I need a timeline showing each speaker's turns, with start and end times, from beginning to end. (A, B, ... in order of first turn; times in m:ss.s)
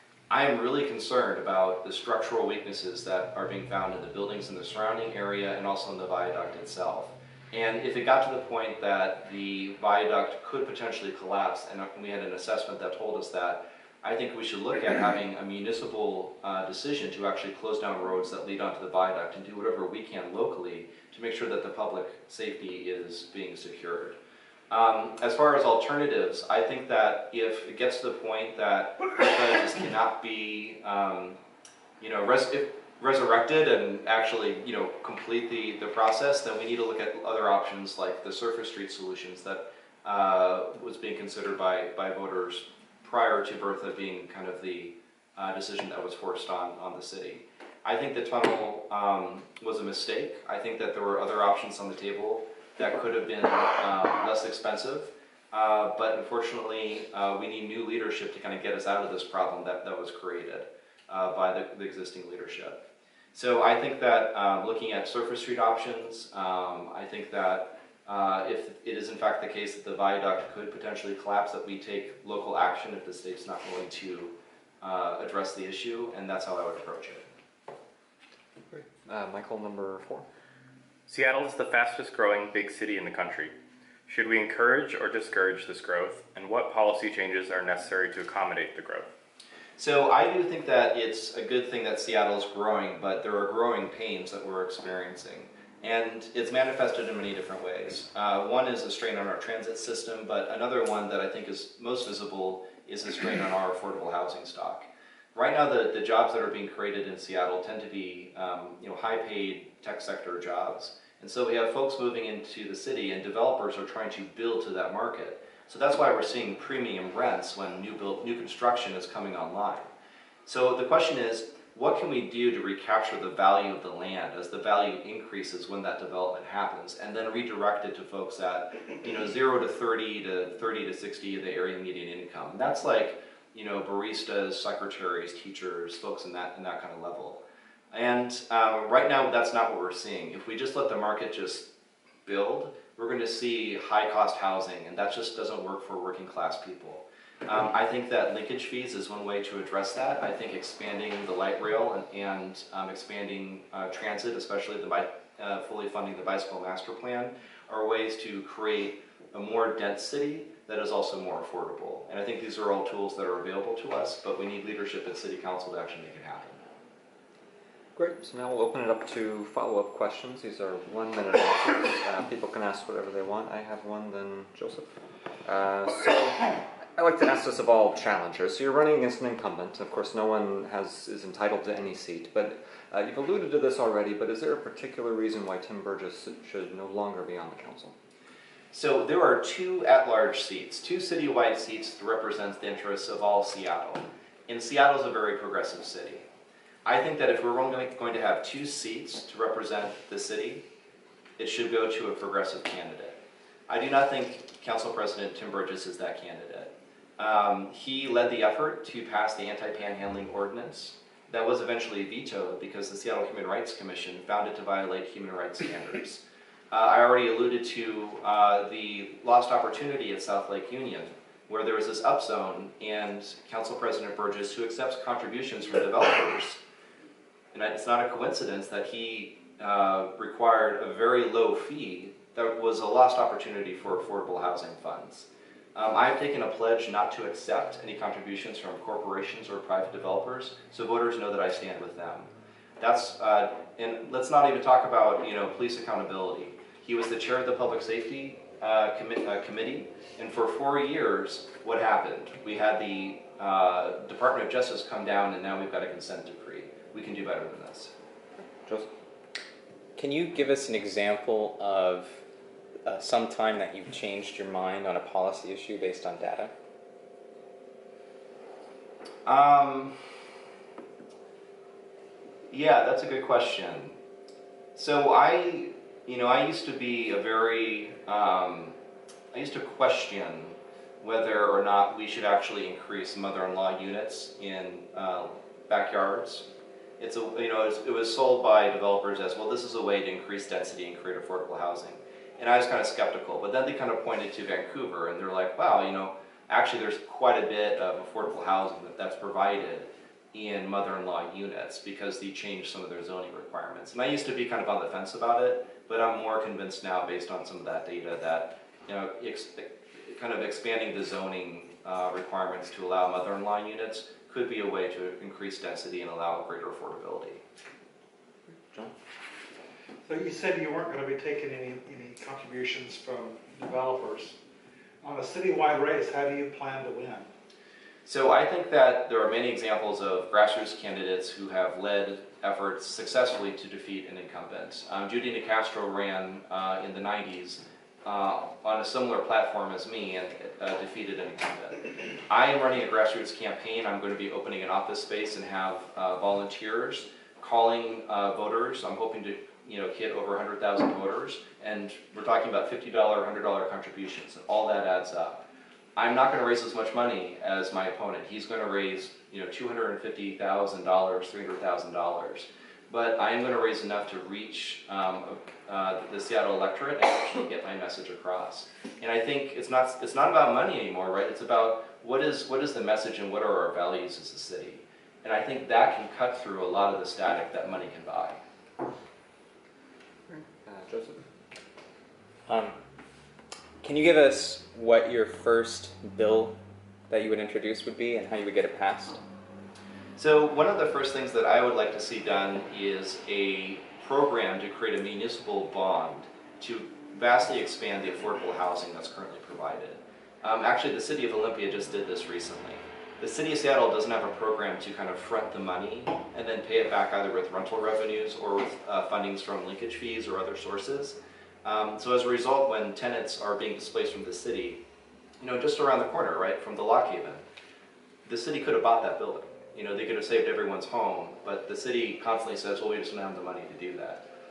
0:00.3-0:24.2 A
0:24.7-0:31.4 A
0:32.0-1:02.8 A
1:03.3-1:17.2 A
1:18.7-1:20.2 B
1:21.1-1:23.5 C
1:24.1-1:24.6 C
1:24.1-1:25.1 D
1:25.2-1:29.0 C
1:29.8-1:59.9 A
2:00.4-2:21.7 A
2:22.2-2:46.6 A
2:48.0-2:54.9 B
2:55.4-3:07.9 B
3:08.7-3:16.2 A
3:16.8-3:20.6 A
3:21.4-3:46.6 A
3:47.5-4:17.9 A
4:18.6-4:18.9 B
4:20.0-4:22.2 D
4:22.8-4:26.5 D
4:29.2-4:30.0 A
4:32.5-4:34.0 A
4:34.8-4:38.8 A
4:39.3-4:46.5 A
4:47.0-5:17.4 A
5:18.5-5:18.9 B
5:20.0-5:24.4 E
5:25.0-5:27.3 E
5:28.0-5:55.4 A
5:56.0-6:18.4 A
6:20.3-6:21.2 B
6:22.5-6:22.8 D
6:23.8-6:26.6 D
6:27.1-6:29.2 D
6:30.2-6:54.8 A
6:55.4-6:57.4 A
6:58.2-7:04.2 A